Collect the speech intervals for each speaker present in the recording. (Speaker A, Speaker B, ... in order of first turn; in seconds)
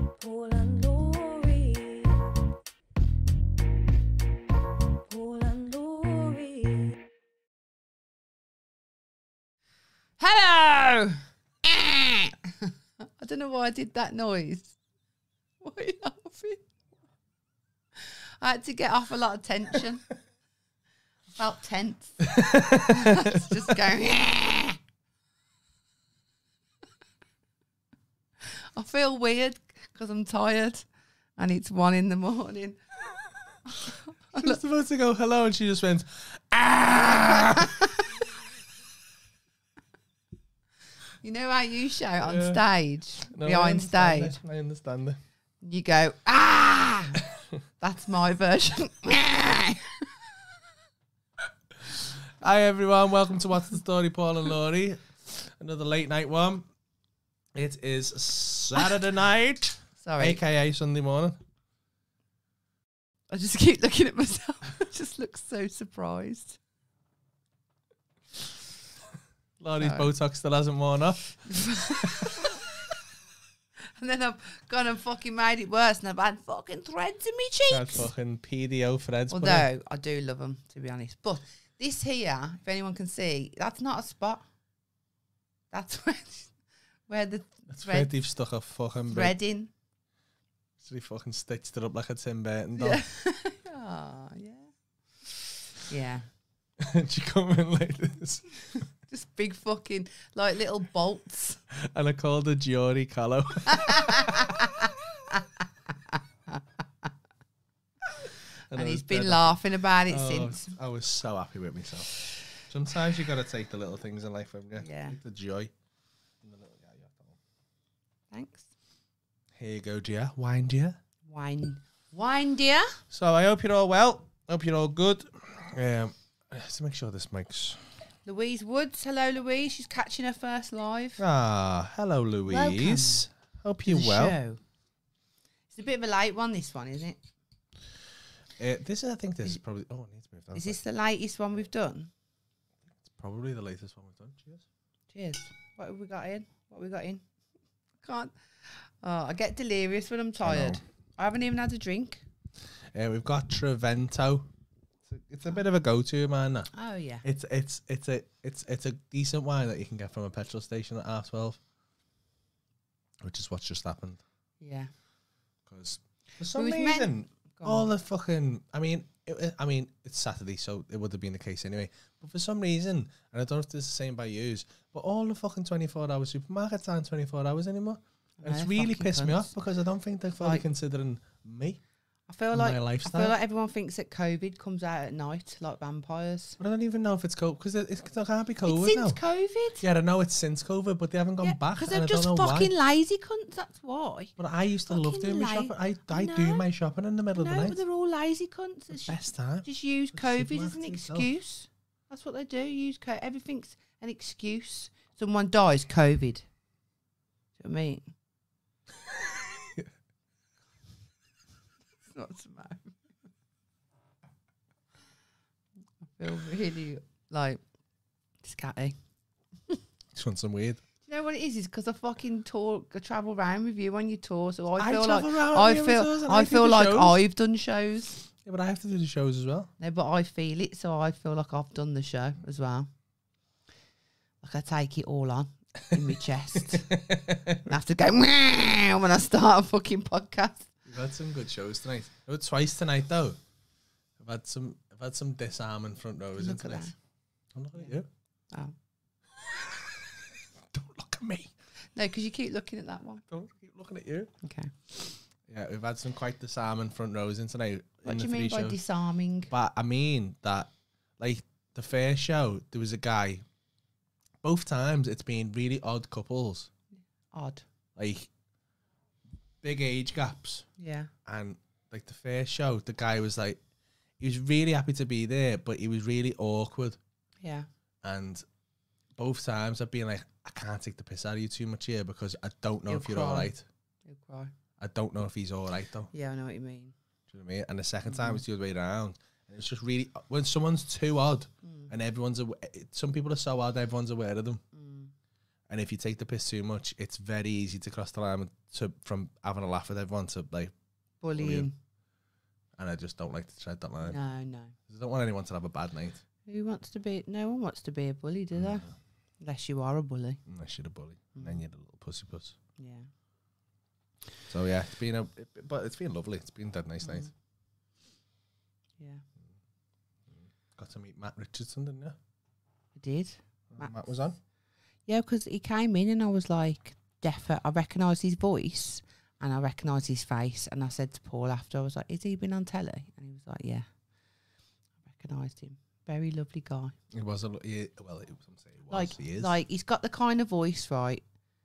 Speaker A: 0.2-2.1, 5.1-6.7
Speaker B: 10.2-14.8, 15.6-16.6, 18.0-20.1, 21.3-24.8, 28.4-30.9, 31.4-32.8, 33.7-34.6, 37.3-38.0, 41.2-44.4, 45.6-47.2, 47.8-50.2, 60.0-60.4, 63.3-66.6, 69.8-70.1, 71.5-72.5, 73.9-78.1, 79.3-84.4, 85.7-86.5, 87.1-88.1, 89.1-89.7, 92.8-94.7, 95.8-96.3, 99.1-101.6, 103.7-105.4, 106.1-106.6, 108.7-110.7, 114.8-115.2, 118.3-118.7, 121.2-123.0, 128.2-131.2, 132.5-133.2, 133.8-134.6, 135.7-137.2, 140.5-142.1, 145.1-147.2, 148.0-152.2, 156.7-157.2, 164.6-164.9, 166.5-167.9, 178.4-179.5, 180.4-180.6, 182.3-186.6, 188.6-189.8, 191.4-194.3, 194.9-196.7, 197.3-206.4, 207.6-208.0, 212.1-212.9, 216.2-217.6, 218.4-218.9, 221.1-228.2, 229.8-232.9, 234.4-237.0, 237.6-240.7, 246.4-246.9, 251.9-253.2, 254.4-254.7, 258.0-259.5, 267.3-267.6, 270.8-271.1, 277.4-277.7, 282.9-283.5, 284.1-284.5, 286.1-286.9, 291.6-291.9, 294.7-295.1, 301.2-301.7, 304.0-304.8, 306.4-308.9, 309.4-310.4, 311.4-311.6, 312.8-313.1, 317.0-317.3, 319.0-319.2, 322.9-323.9, 325.1-333.9, 335.0-336.9, 338.9-341.2
Speaker C: 22.3-23.6, 34.3-38.0, 42.2-42.6, 43.3-45.2, 51.8-56.7, 57.5-61.4, 69.6-72.3, 77.7-79.7, 87.7-89.3, 90.8-93.0, 96.8-98.5, 101.7-104.9, 108.7-115.7, 116.4-117.4, 119.5-121.0, 123.1-127.9, 131.2-134.4, 138.6-140.8, 143.0-144.6, 150.4-150.8, 152.9-154.5, 155.1-156.7, 157.2-161.6, 163.2-164.2, 165.7-181.8, 182.5-183.3, 186.6-189.2, 189.8-192.7, 194.4-197.8, 198.9-201.3, 209.3-209.9, 220.1-220.8, 224.8-227.2, 228.4-229.7, 236.9-237.7, 240.9-243.4, 244.2-246.9, 247.5-248.1, 249.6-250.0, 250.7-251.5, 253.3-254.3, 255.5-258.8, 259.5-263.4, 264.4-266.7, 267.9-268.3, 269.6-270.7, 271.2-273.6, 274.2-277.0, 278.0-278.4, 279.1-283.6, 284.8-286.1, 287.3-294.6, 295.7-300.7, 301.4-301.7, 302.8-304.2, 304.9-306.2, 308.5-308.9, 310.4-312.6, 314.5-317.3, 320.3-322.1, 323.7-324.4, 337.1-339.5